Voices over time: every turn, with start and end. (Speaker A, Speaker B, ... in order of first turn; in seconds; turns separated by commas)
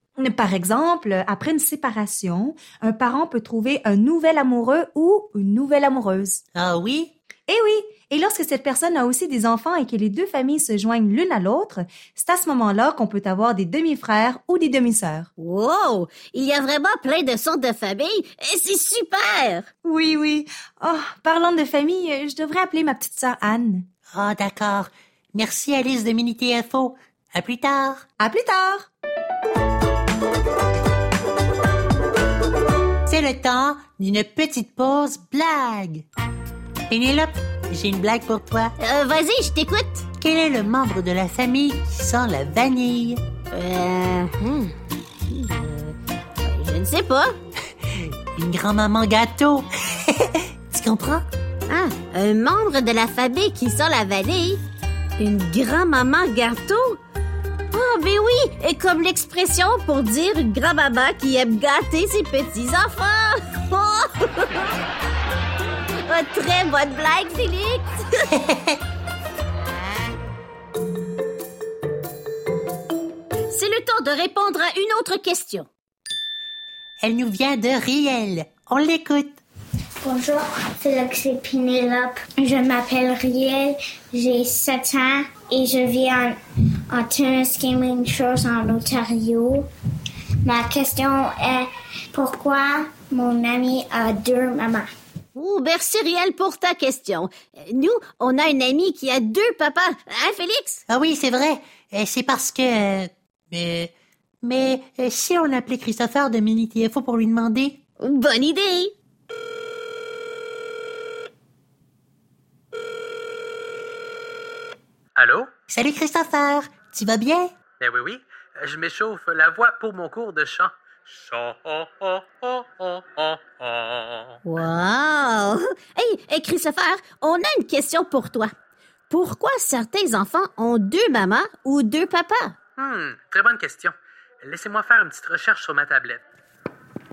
Speaker A: 0.2-6.4, Speaker B: 6.6-7.1, Speaker A: 7.5-15.3, Speaker C: 15.4-19.7, Speaker A: 19.8-23.9, Speaker B: 24.1-28.0, Speaker A: 28.2-28.9, Speaker B: 33.1-36.1, Speaker B: 36.9-38.8, Speaker C: 38.8-40.0, Speaker B: 40.2-43.2, Speaker C: 43.5-44.7, Speaker C: 45.3-47.4, Speaker B: 48.4-51.2, Speaker C: 51.7-54.6, Speaker C: 55.2-57.0, Speaker C: 57.7-64.7, Speaker C: 66.1-68.3, Speaker B: 68.3-68.8, Speaker C: 73.5-75.7, Speaker B: 77.0-79.4, Speaker D: 80.0-86.4, Speaker D: 86.9-89.7, Speaker D: 90.4-94.9, Speaker C: 95.3-100.8, Speaker B: 100.9-103.9, Speaker B: 104.4-107.8, Speaker C: 108.0-108.9, Speaker E: 115.2-115.5, Speaker B: 115.7-117.5, Speaker E: 117.8-124.4, Speaker C: 124.5-128.5, Speaker C: 129.1-132.6, Speaker E: 132.8-136.2